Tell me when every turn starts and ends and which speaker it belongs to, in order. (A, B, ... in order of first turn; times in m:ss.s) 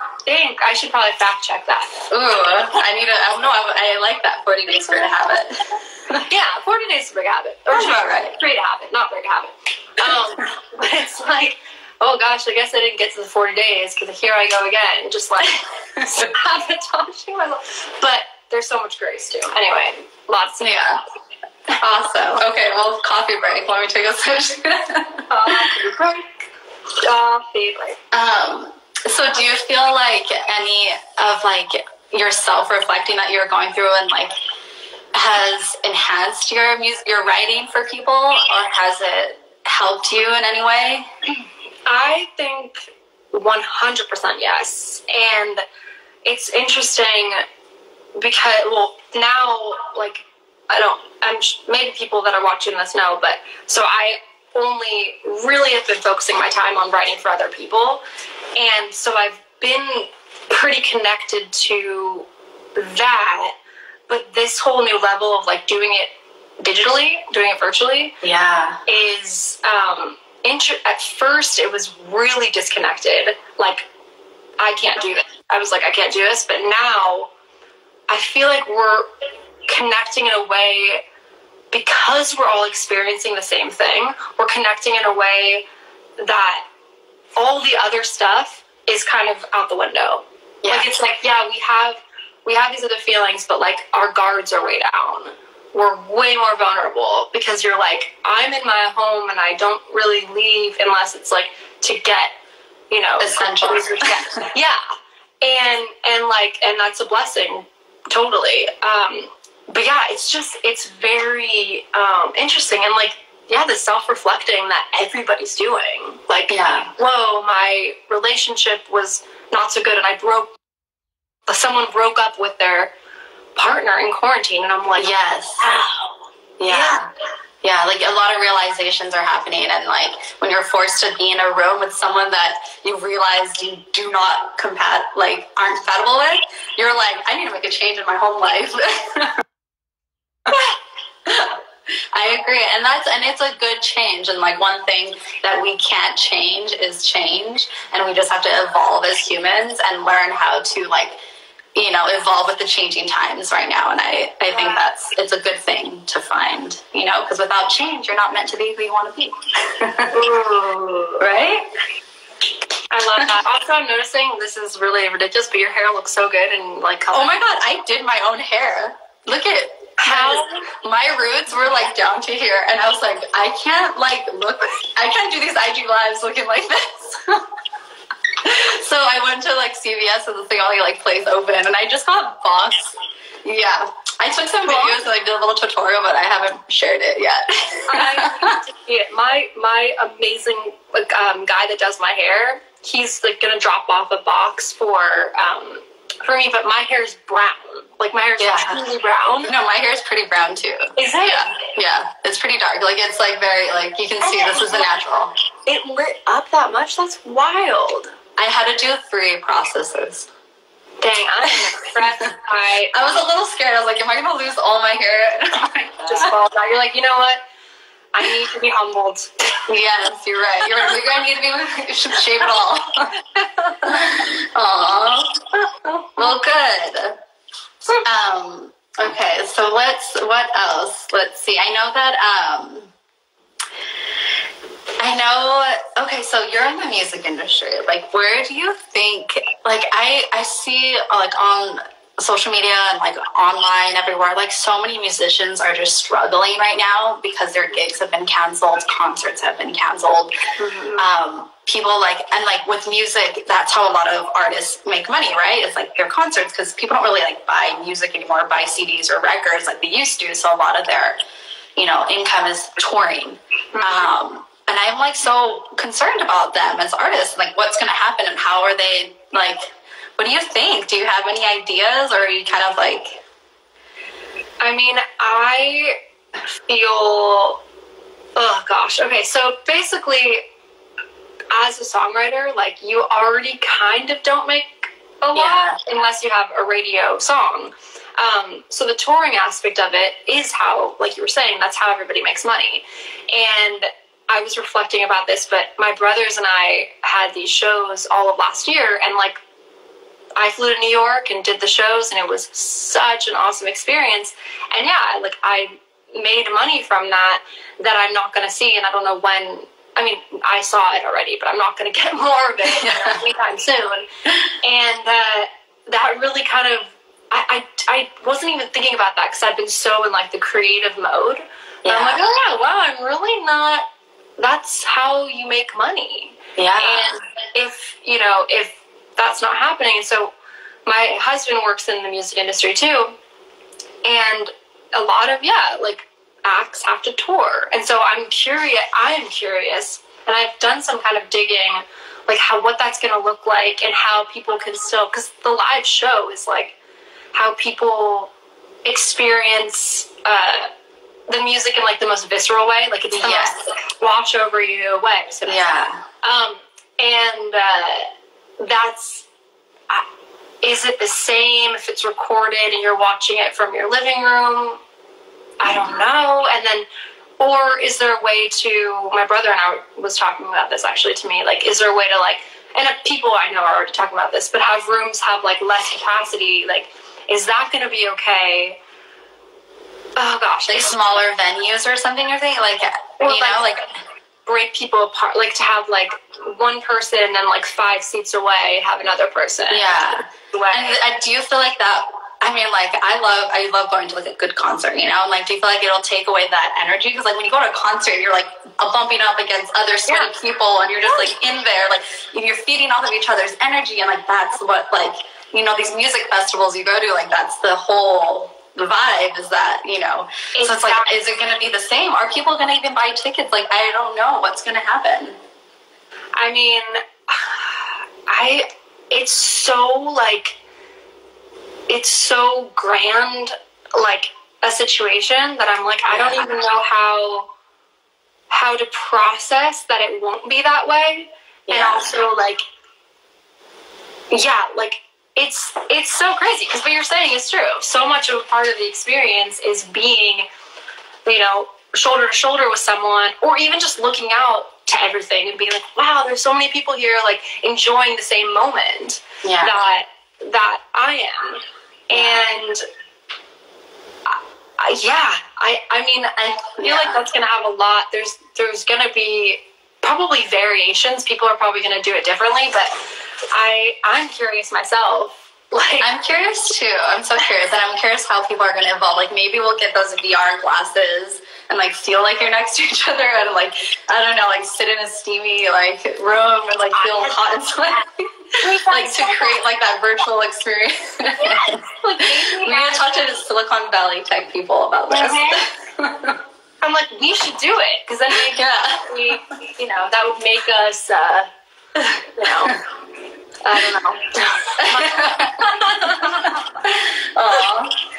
0:00.3-0:02.0 A
0:02.1-0:06.3 B
0:04.9-0:05.1 A
0:06.3-0:20.9 A
0:07.7-0:08.4 B
0:16.0-0:16.3 B
0:20.6-0:21.0 B
0:21.8-0:25.7 B
0:25.3-0:26.4 A
0:27.0-0:28.0 A
0:28.1-0:34.3 B
0:35.1-0:41.1 B
0:41.9-0:45.6 A
0:46.2-0:47.4 A
0:48.2-0:58.0 A
0:58.6-1:03.6 A
1:04.1-1:08.2 A
1:08.2-1:08.8 B
1:08.9-1:13.9 A
1:14.6-1:17.3 A
1:18.1-1:19.1 A
1:19.7-1:21.0 A
1:21.7-1:25.6 A
1:26.2-1:26.6 A
1:27.4-1:42.4 A
1:30.6-1:30.9 B
1:42.9-1:44.8 A
1:43.2-1:44.4 B
1:45.4-2:00.6 A
1:56.5-1:56.9 B
2:01.5-2:02.9 A
2:03.6-2:07.0 A
2:05.0-2:05.6 B
2:06.6-2:07.1 B
2:07.6-2:19.4 B
2:21.2-2:21.6 B
2:22.1-2:31.2 B
2:31.8-2:40.2 B
2:34.5-2:34.9 A
2:40.1-2:41.3 A
2:41.2-2:41.7 B
2:42.9-2:47.4 A
2:47.1-2:57.4 B
2:50.0-2:50.7 A
2:58.4-3:08.6 B
3:04.7-3:05.0 A
3:07.9-3:19.5 A
3:18.4-3:18.8 B
3:19.4-3:25.3 B
3:21.0-3:21.5 A
3:24.2-3:24.9 A
3:25.7-3:28.1 A
3:28.4-3:30.3 B
3:31.0-3:33.0 A
3:32.9-3:36.3 B
3:36.1-3:37.4 A
3:38.1-3:39.3 A
3:39.7-3:43.1 B
3:40.7-3:41.0 A
3:43.3-3:44.3 A
3:43.8-3:45.4 B
3:45.8-3:46.4 A
3:46.2-3:47.2 B
3:48.0-3:52.9 B
3:55.0-4:10.3 B
4:10.6-4:11.1 A
4:11.0-4:21.2 B
4:21.8-4:33.2 B
4:23.7-4:24.1 A
4:34.6-4:36.0 A
4:36.7-4:37.6 A
4:38.4-4:40.4 A
4:41.5-4:59.4 A
4:45.4-4:45.8 B
5:00.4-5:14.1 A
5:12.7-5:13.2 B
5:14.6-5:23.9 A
5:21.8-5:22.2 B
5:24.4-5:30.3 A
5:26.6-5:27.2 B
5:30.9-5:33.1 A
5:34.0-5:46.8 A
5:47.3-5:48.3 A
5:48.8-5:50.7 A
5:51.3-5:55.7 A
5:53.1-5:53.6 B
5:55.5-5:56.0 B
5:56.2-5:58.1 A
5:58.6-5:59.3 A
6:00.6-6:04.8 A
6:05.6-6:06.8 A
6:05.6-6:06.0 B
6:07.4-6:18.8 A
6:20.2-6:21.2 A
6:20.7-6:23.9 B
6:23.2-6:23.7 A
6:24.5-6:30.9 A
6:29.7-6:55.4 B
6:50.5-6:51.2 A
6:56.4-7:00.6 A
7:01.9-7:07.5 A
7:06.1-7:06.5 B
7:08.5-7:12.6 A
7:11.7-7:12.2 B
7:14.3-7:20.4 A
7:21.2-7:32.8 A
7:29.4-7:29.7 B
7:32.1-7:32.5 B
7:34.3-7:43.0 A
7:36.4-7:37.2 B
7:43.5-7:46.1 A
7:46.0-7:58.3 B
7:56.9-7:57.4 A
7:58.6-7:59.6 A
7:58.9-8:06.4 B
8:01.4-8:03.3 A
8:05.1-8:05.7 A
8:06.8-8:11.5 A
8:08.3-8:09.4 B
8:12.0-8:12.8 B
8:12.4-8:12.8 A
8:13.6-8:16.6 A
8:14.8-8:18.0 B